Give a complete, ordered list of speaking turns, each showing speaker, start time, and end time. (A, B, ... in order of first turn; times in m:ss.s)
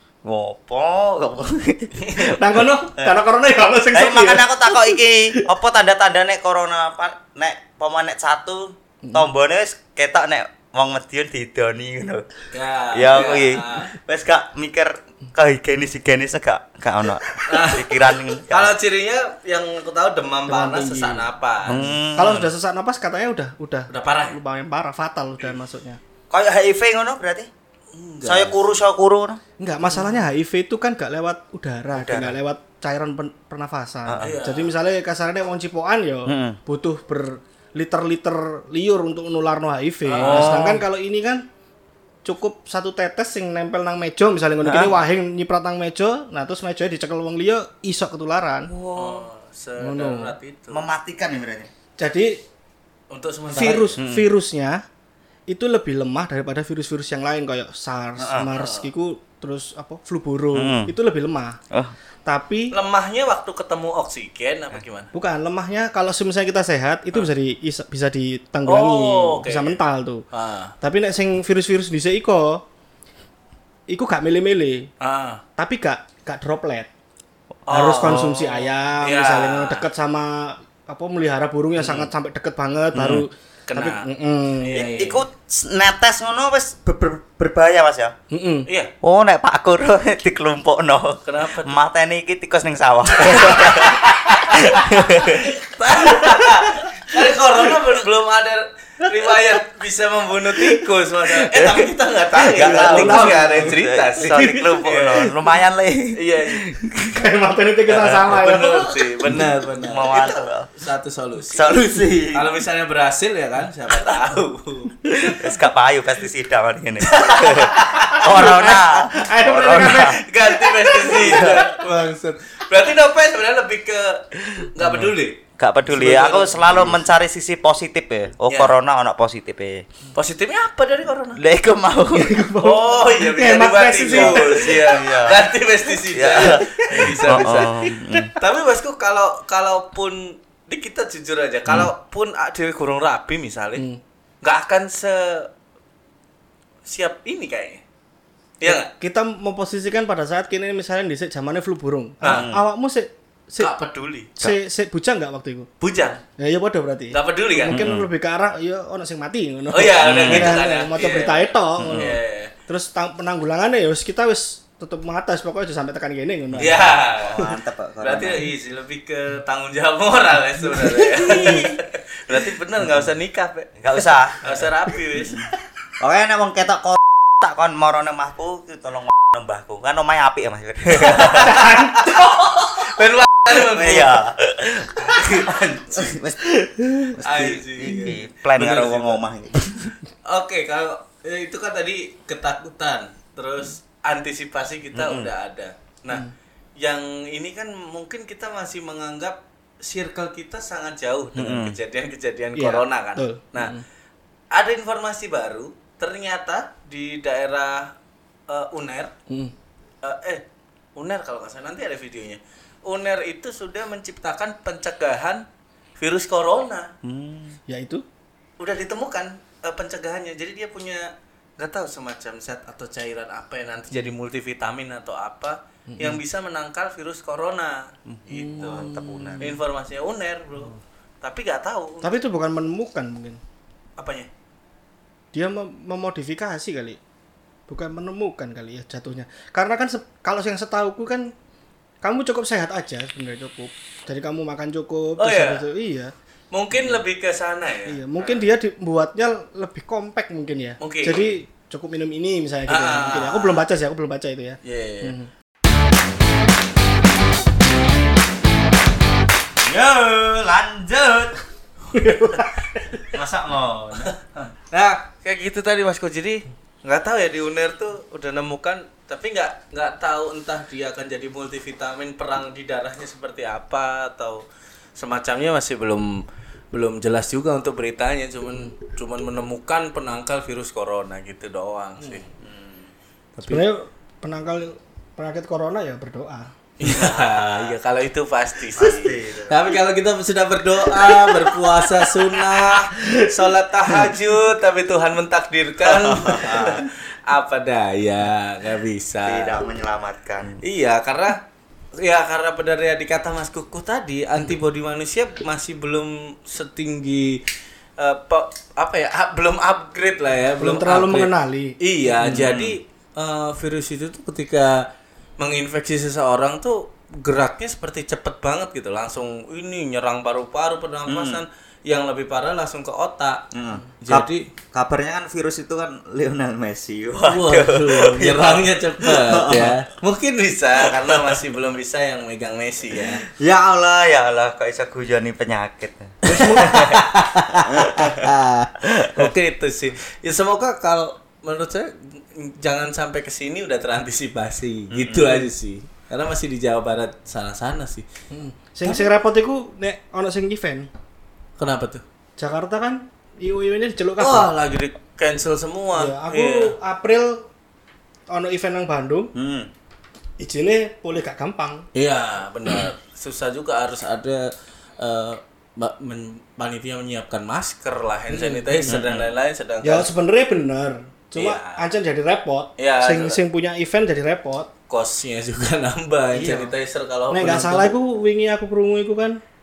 0:00.2-0:02.4 A
0:02.0-0:02.3 B
0:02.3-0:05.0 C
0:03.9-0:12.3 A
0:12.5-0:13.9 B
0:12.9-0:18.7 A
0:17.4-0:22.5 B
0:20.5-0:26.0 C
0:21.6-0:22.4 A
0:23.9-0:24.4 B
0:26.3-0:27.5 A
0:27.9-0:28.6 B
0:28.2-0:29.4 A
0:29.6-0:41.4 C
0:31.9-0:32.4 A
0:34.0-0:34.3 A
0:34.2-0:34.7 B
0:36.2-0:36.6 A
0:40.0-0:40.8 B
0:40.2-0:40.8 A
0:42.2-0:48.7 C
0:44.6-0:44.9 A
0:48.7-0:49.3 A
0:48.9-0:50.8 B
0:49.8-0:50.3 C
0:50.7-0:51.7 A
0:52.0-0:52.4 C
0:53.1-0:54.0 B
0:53.5-0:54.8 C
0:54.0-0:54.3 A
0:55.5-1:01.6 C
0:58.2-0:58.5 A
0:58.6-0:58.9 B
1:00.5-1:00.9 A
1:02.2-1:02.7 C
1:02.7-1:05.1 B
1:05.1-1:10.2 C
1:08.7-1:09.8 B
1:10.3-1:10.7 B
1:10.8-1:12.6 C
1:13.9-1:14.9 C
1:15.0-1:15.4 B
1:15.6-1:16.9 C
1:17.7-1:19.8 B
1:17.7-1:24.7 C
1:23.0-1:24.0 B
1:24.6-1:25.2 B
1:24.7-1:28.1 A
1:28.3-1:28.7 C
1:28.7-1:28.9 B
1:29.0-1:35.5 A
1:31.2-1:31.8 B
1:33.2-1:45.3 B
1:36.0-1:36.5 C
1:41.5-1:41.9 A
1:42.5-1:47.2 A
1:42.5-1:43.8 C
1:44.3-1:44.6 C
1:46.1-1:46.7 B
1:47.1-1:49.5 C
1:47.9-1:51.7 B
1:49.8-1:50.7 A
1:51.5-1:52.5 A
1:52.3-1:55.0 B
1:55.2-2:00.2 A
1:57.0-2:05.4 B
1:58.0-2:01.8 C
2:01.1-2:01.6 A
2:04.8-2:09.9 A
2:05.9-2:07.0 B
2:08.5-2:08.7 B
2:10.1-2:11.4 B
2:11.3-2:12.3 A
2:12.1-2:14.8 C
2:12.6-2:17.7 B
2:14.1-2:18.3 A
2:16.4-2:18.3 C
2:18.4-2:23.8 B
2:23.7-2:24.0 C
2:24.4-2:25.5 B
2:26.8-2:27.8 B
2:28.6-2:28.9 B
2:28.6-2:33.7 C
2:32.2-2:32.6 A
2:33.6-2:34.5 B
2:34.4-2:35.7 C
2:35.8-2:36.2 B
2:36.4-2:47.4 C
2:37.1-2:37.9 B
2:37.7-2:38.1 A
2:39.7-2:42.5 B
2:40.0-2:40.6 A
2:41.8-2:42.2 A
2:46.6-2:48.4 A
2:46.6-2:47.5 B
2:48.0-2:53.8 B
2:50.7-2:51.7 C
2:51.2-2:51.7 A
2:52.8-2:53.1 A
2:53.8-3:01.6 A
2:54.4-2:55.5 B
3:01.0-3:01.8 B
3:01.4-3:02.3 C
3:02.2-3:02.7 A
3:02.6-3:04.2 B
3:03.4-3:09.9 A
3:05.0-3:06.1 B
3:06.6-3:07.1 C
3:07.1-3:09.2 B
3:10.2-3:16.3 B
3:14.9-3:15.3 A
3:16.8-3:23.8 B
3:21.3-3:21.8 A
3:22.6-3:23.8 C
3:24.5-3:27.9 B
3:28.5-3:29.1 B
3:30.0-3:30.4 B
3:31.0-3:35.4 B
3:36.0-3:36.9 B
3:37.0-3:37.6 A
3:37.7-3:38.0 C
3:38.6-3:48.9 B
3:45.9-3:46.2 C
3:48.2-3:49.6 C
3:48.5-3:49.6 A
3:49.4-3:52.2 B
3:52.0-3:53.4 C
3:54.0-3:54.3 B
3:55.3-3:57.0 C
3:57.7-4:01.3 C
4:02.0-4:06.1 C
4:05.2-4:05.6 B
4:06.5-4:08.4 B
4:07.9-4:15.3 C
4:10.8-4:11.3 B
4:12.7-4:13.6 B
4:14.6-4:15.1 B
4:19.6-4:21.4 A
4:21.9-4:23.1 C
4:23.1-4:24.5 A
4:24.7-4:34.4 B
4:35.0-4:42.2 B
4:42.4-4:42.9 A
4:43.4-4:43.6 B
4:43.4-4:46.5 C
4:46.8-4:59.6 B
4:46.8-4:47.7 A
4:48.7-4:49.7 A
4:51.0-4:52.1 C
4:52.6-4:53.3 C
4:55.8-4:56.9 A
4:59.2-5:00.6 A
5:00.6-5:01.4 B
5:02.0-5:07.4 B
5:08.0-5:14.8 B
5:10.6-5:12.5 C
5:12.3-5:12.8 A
5:15.4-5:23.4 B
5:21.0-5:21.4 A
5:23.5-5:29.8 A
5:24.0-5:24.4 B
5:27.3-5:33.2 B
5:30.8-5:31.4 A
5:33.0-5:37.0 A
5:36.2-5:36.8 C
5:36.3-5:48.0 B
5:37.6-5:38.3 A
5:38.8-5:39.3 A
5:44.9-5:45.5 A
5:48.3-5:50.9 C
5:51.6-5:52.0 B
5:52.4-5:54.5 C
5:54.2-5:56.7 B
5:56.0-5:57.4 C
5:58.3-5:59.3 C
5:59.3-5:59.7 A
6:00.4-6:01.9 C
6:01.9-6:10.1 B
6:08.3-6:09.0 C
6:08.9-6:09.3 A
6:09.8-6:14.7 C
6:11.4-6:11.8 B
6:12.8-6:13.4 B
6:14.9-6:18.0 B
6:16.3-6:16.7 C
6:17.3-6:19.4 C